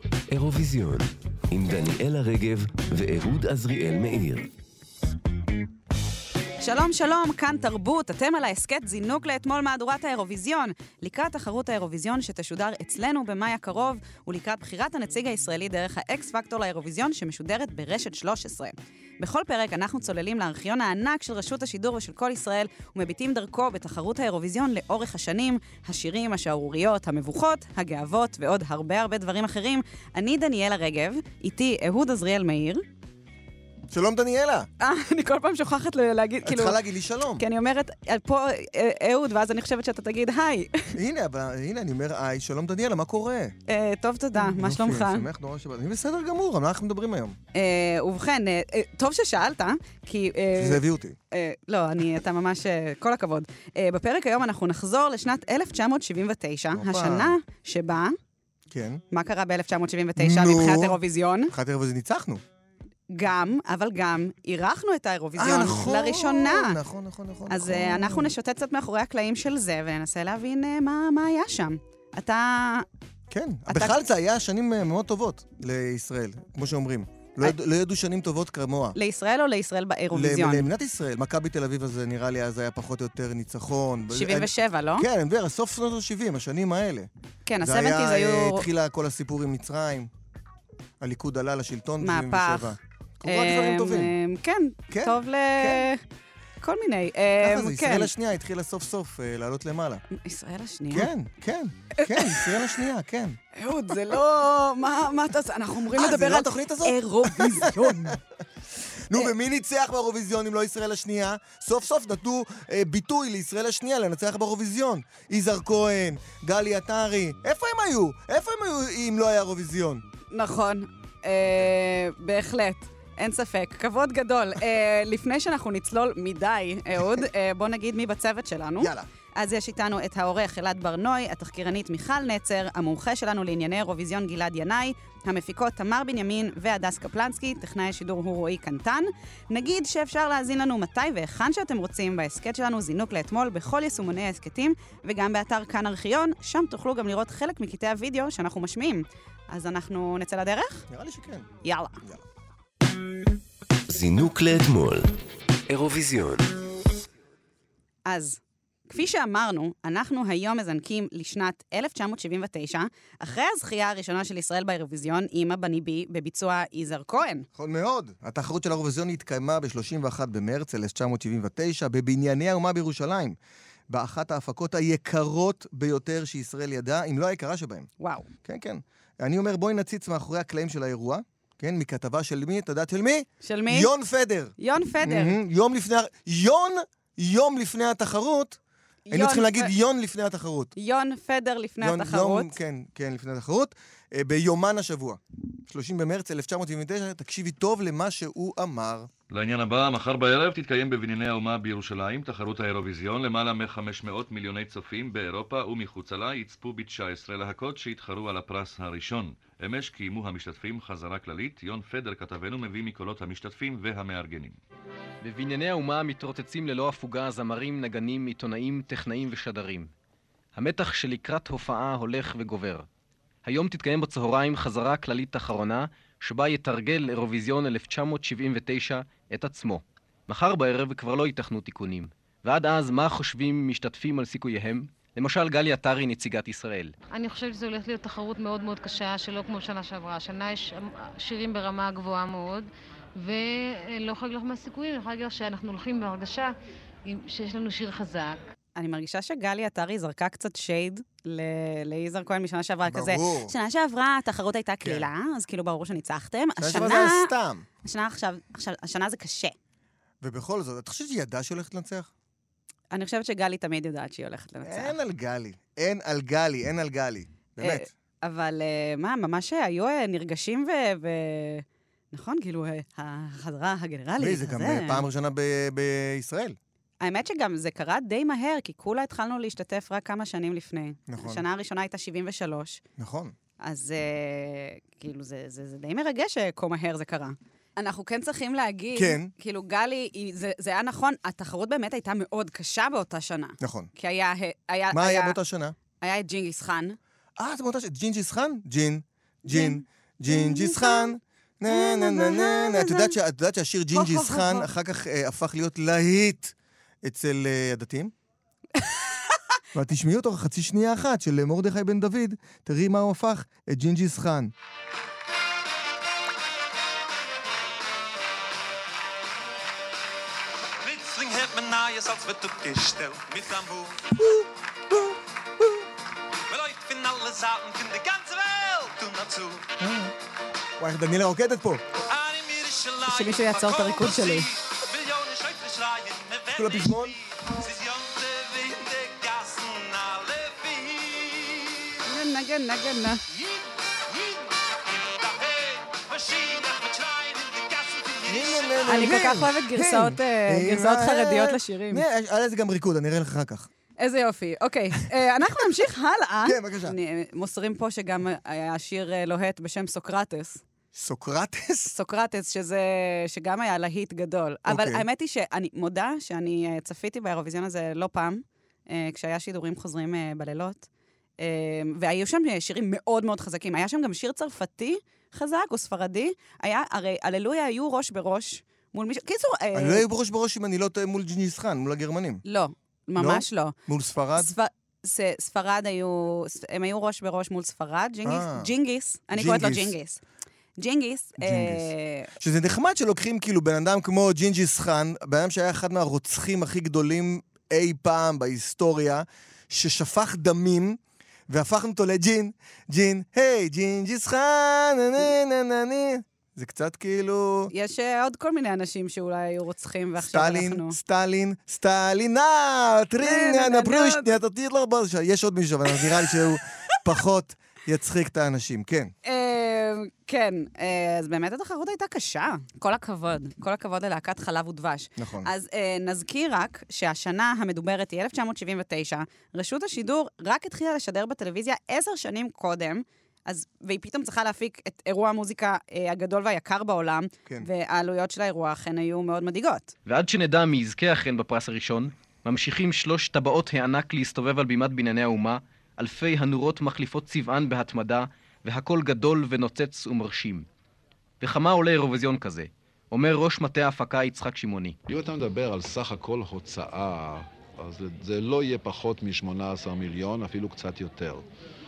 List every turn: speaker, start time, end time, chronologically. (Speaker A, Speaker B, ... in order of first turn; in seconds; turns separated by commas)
Speaker A: 0.3-4.5, Speaker B: 6.6-32.8, Speaker C: 33.9-34.7, Speaker B: 34.8-36.8, Speaker C: 36.4-37.4, Speaker B: 37.4-40.9, Speaker C: 41.0-43.5, Speaker B: 43.7-45.3, Speaker C: 44.4-47.4, Speaker B: 47.5-50.8, Speaker C: 50.6-51.2, Speaker B: 51.3-58.2, Speaker C: 56.7-57.4, Speaker C: 58.7-59.0, Speaker B: 59.1-61.5, Speaker C: 60.2-61.0, Speaker C: 61.5-62.4, Speaker B: 63.1-66.8, Speaker C: 65.4-68.3, Speaker B: 67.5-72.9, Speaker C: 73.3-79.0, Speaker B: 73.7-74.0, Speaker B: 79.0-80.7, Speaker C: 80.1-87.1, Speaker B: 84.1-85.1, Speaker B: 87.5-88.7, Speaker C: 87.6-90.1, Speaker C: 91.0-94.1, Speaker B: 92.0-92.8, Speaker B: 93.3-96.0, Speaker C: 94.9-95.9, Speaker B: 96.6-98.1, Speaker C: 97.4-100.0, Speaker B: 100.1-101.1, Speaker C: 100.9-103.4, Speaker B: 102.0-102.6, Speaker B: 103.5-108.2, Speaker C: 105.9-108.2, Speaker C: 109.1-120.0, Speaker B: 120.3-150.8, Speaker C: 128.8-129.1, Speaker C: 150.9-151.5, Speaker B: 151.6-152.0, Speaker A: 153.9-155.1, Speaker A: 155.7-156.5, Speaker B: 158.1-167.5, Speaker C: 167.6-173.4, Speaker C: 173.9-177.9, Speaker B: 178.0-178.3, Speaker C: 178.4-188.6, Speaker B: 183.4-183.9, Speaker B: 184.6-185.4, Speaker B: 189.1-189.7, Speaker C: 189.1-190.7, Speaker B: 190.8-192.5, Speaker C: 191.8-199.1, Speaker D: 199.3-214.6, Speaker E: 215.2-219.9, Speaker E: 220.6-222.9, Speaker E: 223.4-236.9, Speaker F: 237.1-246.5, Speaker F: 247.0-248.5, Speaker B: 248.8-257.3, Speaker C: 252.8-253.5, Speaker C: 254.8-255.1, Speaker C: 256.6-257.7, Speaker B: 257.8-259.6, Speaker C: 260.2-262.1, Speaker B: 262.9-265.0, Speaker C: 264.6-267.9, Speaker B: 267.6-275.0, Speaker C: 274.2-276.6, Speaker B: 277.0-282.8, Speaker C: 281.1-281.4, Speaker C: 283.0-283.3, Speaker B: 283.6-295.4, Speaker C: 288.9-289.3, Speaker C: 293.6-293.9, Speaker C: 294.9-295.8, Speaker B: 296.0-297.0, Speaker C: 297.4-308.1, Speaker B: 299.5-301.1, Speaker B: 301.7-303.1, Speaker B: 303.9-304.7, Speaker B: 308.8-309.4, Speaker C: 309.7-314.5, Speaker G: 320.8-324.1, Speaker C: 324.2-325.8, Speaker G: 326.5-329.7, Speaker C: 329.8-330.1, Speaker C: 330.8-331.8, Speaker G: 332.1-341.9, Speaker B: 333.1-334.5, Speaker C: 336.6-337.1, Speaker B: 342.1-343.2, Speaker G: 343.3-349.1, Speaker C: 348.3-353.7, Speaker B: 348.9-352.0, Speaker B: 354.0-360.6, Speaker C: 356.4-357.0, Speaker C: 360.9-361.9, Speaker B: 361.9-370.9, Speaker C: 364.7-365.1, Speaker B: 371.4-380.0, Speaker C: 379.8-382.4, Speaker B: 382.4-383.8, Speaker C: 383.2-384.6, Speaker B: 384.4-390.2, Speaker C: 388.2-388.7, Speaker C: 389.3-389.9, Speaker B: 390.8-392.3, Speaker C: 391.4-407.7, Speaker B: 407.7-411.0, Speaker C: 410.2-419.1, Speaker B: 413.2-414.4, Speaker B: 415.9-416.4, Speaker B: 419.2-439.9, Speaker C: 425.2-425.5, Speaker E: 440.1-450.6, Speaker E: 451.4-455.0, Speaker H: 455.1-461.4